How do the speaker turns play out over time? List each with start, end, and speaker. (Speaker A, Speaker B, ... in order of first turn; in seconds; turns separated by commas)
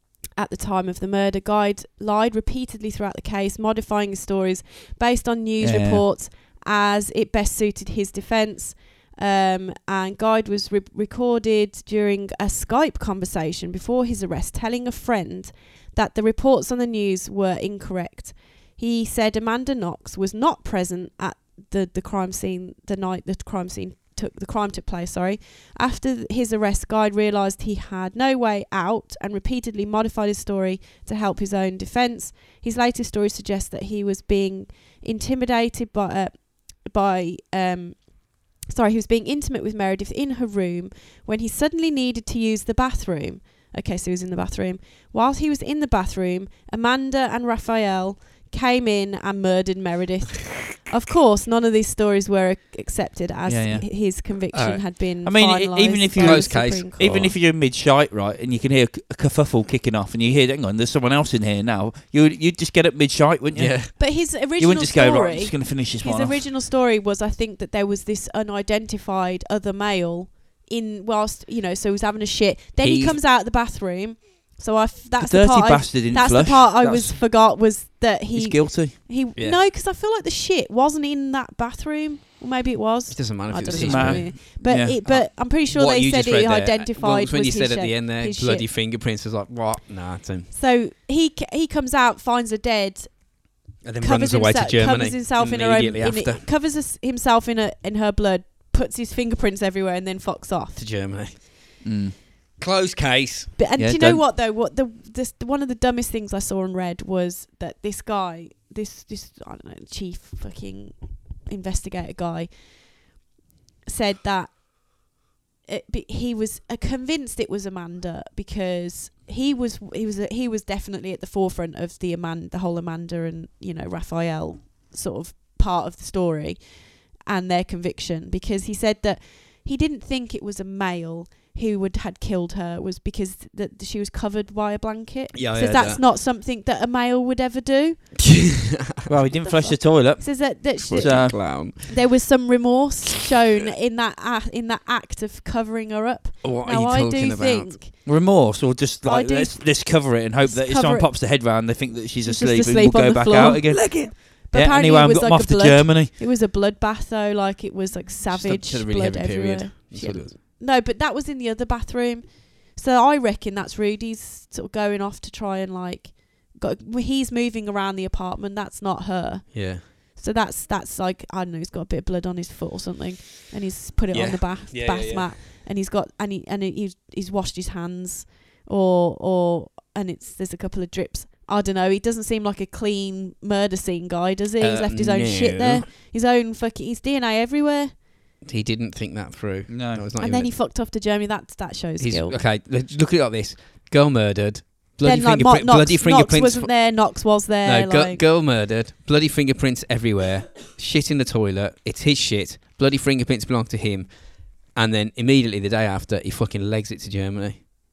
Speaker A: 0.4-57.2, Speaker B: 5.6-6.1, Speaker B: 53.5-53.9, Speaker C: 54.5-54.9, Speaker B: 55.2-66.5, Speaker C: 56.2-57.4, Speaker C: 63.5-64.0, Speaker A: 64.0-88.7, Speaker C: 72.8-73.2, Speaker B: 75.2-77.3, Speaker B: 78.3-79.0, Speaker C: 79.4-79.6, Speaker C: 83.1-84.5, Speaker B: 83.6-85.0, Speaker C: 85.0-90.5, Speaker A: 90.5-100.8, Speaker C: 93.8-96.5, Speaker C: 100.8-101.8, Speaker B: 101.8-102.2, Speaker C: 102.6-103.6, Speaker A: 103.6-113.2, Speaker B: 103.8-104.2, Speaker A: 113.9-115.1, Speaker A: 115.7-138.4, Speaker C: 135.3-136.1, Speaker C: 138.2-139.1, Speaker B: 139.1-141.5, Speaker A: 139.3-148.1, Speaker C: 140.8-142.0, Speaker C: 146.4-147.8, Speaker B: 148.1-156.1, Speaker A: 149.0-151.4, Speaker A: 152.2-188.1, Speaker C: 153.7-154.1, Speaker C: 158.3-160.4, Speaker C: 169.5-169.8, Speaker C: 174.1-175.3, Speaker C: 184.6-185.9, Speaker C: 188.4-190.6, Speaker B: 189.7-190.1, Speaker A: 190.2-192.4, Speaker C: 192.0-207.6, Speaker A: 195.0-198.2